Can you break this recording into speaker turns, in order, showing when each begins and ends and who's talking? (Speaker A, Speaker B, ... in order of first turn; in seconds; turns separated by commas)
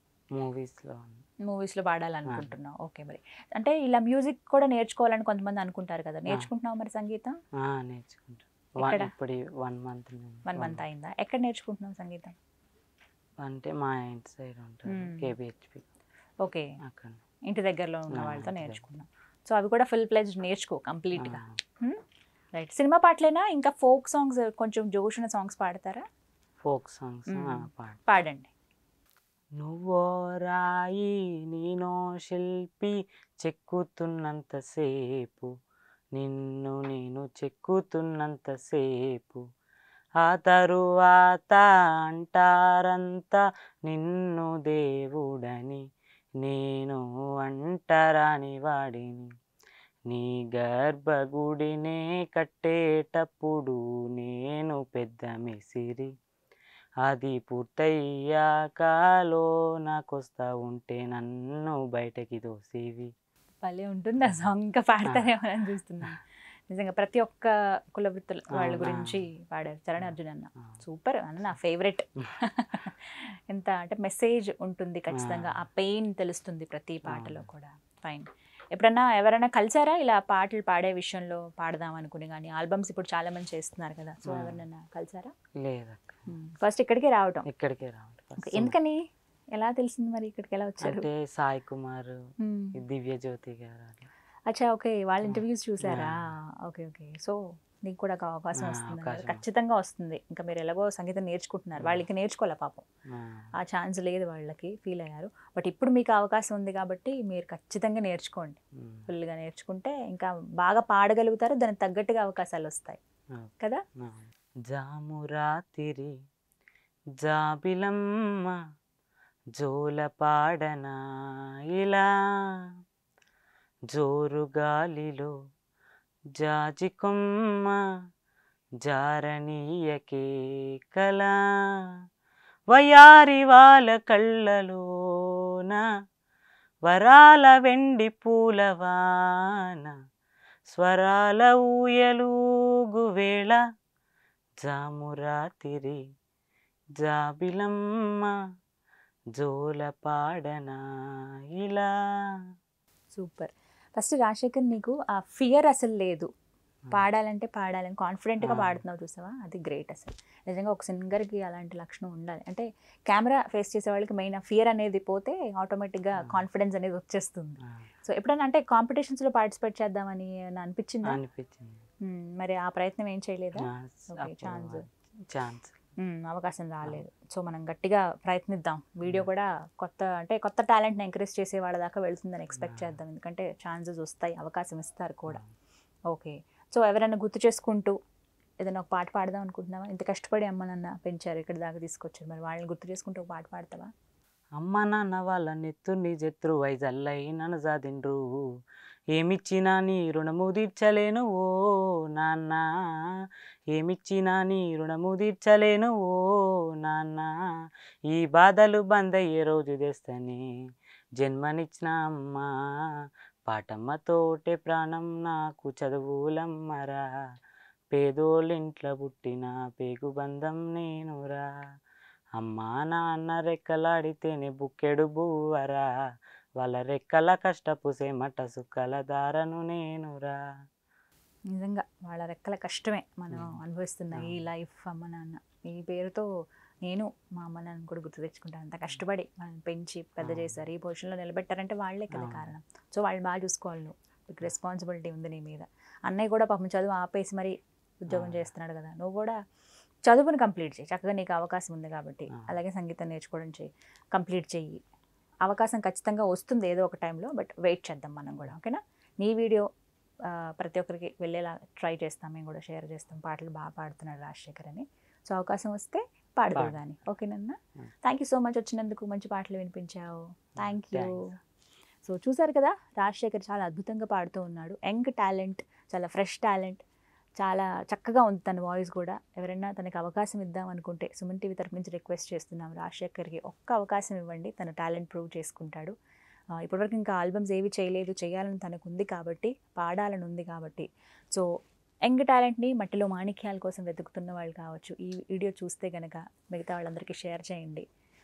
Speaker A: 0.4-1.2, Speaker B: 1.5-7.3, Speaker A: 7.6-10.8, Speaker B: 8.8-9.1, Speaker B: 10.5-12.3, Speaker A: 13.4-15.8, Speaker B: 14.9-15.3, Speaker B: 16.4-16.7, Speaker A: 16.8-17.2, Speaker B: 17.5-22.0, Speaker A: 18.1-18.8, Speaker A: 21.2-21.6, Speaker B: 22.5-26.0, Speaker A: 26.6-28.0, Speaker B: 27.3-28.5, Speaker A: 29.6-35.5, Speaker A: 36.1-39.4, Speaker A: 40.2-45.8, Speaker A: 46.4-49.3, Speaker A: 50.1-56.1, Speaker A: 57.1-63.1, Speaker B: 63.6-85.3, Speaker A: 68.6-69.2, Speaker A: 75.2-75.6, Speaker A: 77.1-77.5, Speaker A: 84.2-84.6, Speaker A: 85.6-86.3, Speaker B: 86.3-87.5, Speaker A: 87.5-88.8, Speaker B: 88.4-89.0, Speaker B: 89.6-91.1, Speaker A: 90.8-92.2, Speaker B: 92.4-92.8, Speaker A: 92.8-94.1, Speaker B: 94.5-102.8, Speaker A: 95.2-96.3, Speaker A: 98.6-99.4, Speaker A: 101.8-102.0, Speaker A: 103.1-103.5, Speaker B: 103.6-113.0, Speaker A: 108.8-109.1, Speaker A: 113.4-116.1, Speaker A: 117.2-118.6, Speaker A: 119.6-120.9, Speaker A: 121.8-122.1, Speaker A: 123.9-125.3, Speaker A: 126.4-127.8, Speaker A: 128.8-130.2, Speaker A: 130.9-131.4, Speaker A: 132.7-135.8, Speaker A: 136.9-139.9, Speaker A: 140.7-142.3, Speaker A: 142.9-143.6, Speaker A: 144.6-146.0, Speaker A: 147.0-148.3, Speaker A: 149.4-150.8, Speaker A: 151.6-151.9, Speaker B: 153.1-156.3, Speaker B: 156.9-171.2, Speaker A: 158.4-158.8, Speaker A: 171.1-171.8, Speaker B: 172.0-174.8, Speaker A: 173.6-175.8, Speaker B: 176.0-185.4, Speaker A: 182.6-183.0, Speaker B: 186.1-187.9, Speaker B: 188.6-193.9, Speaker A: 194.6-198.2, Speaker A: 199.2-201.5, Speaker A: 202.1-202.6, Speaker A: 203.7-206.2, Speaker A: 206.7-207.3, Speaker A: 208.1-210.4, Speaker A: 211.2-212.5, Speaker A: 213.5-217.0, Speaker A: 217.9-221.5, Speaker A: 222.4-225.8, Speaker A: 226.6-230.4, Speaker B: 231.5-236.3, Speaker A: 233.3-233.6, Speaker A: 234.1-234.4, Speaker B: 236.8-249.4, Speaker A: 240.2-240.6, Speaker A: 242.1-242.5, Speaker A: 248.1-248.5, Speaker B: 250.1-254.8, Speaker B: 255.4-259.7, Speaker B: 260.3-271.2, Speaker A: 266.5-266.8, Speaker A: 270.6-271.3, Speaker B: 272.1-276.8, Speaker B: 277.4-285.9, Speaker B: 286.6-291.5, Speaker B: 292.1-297.9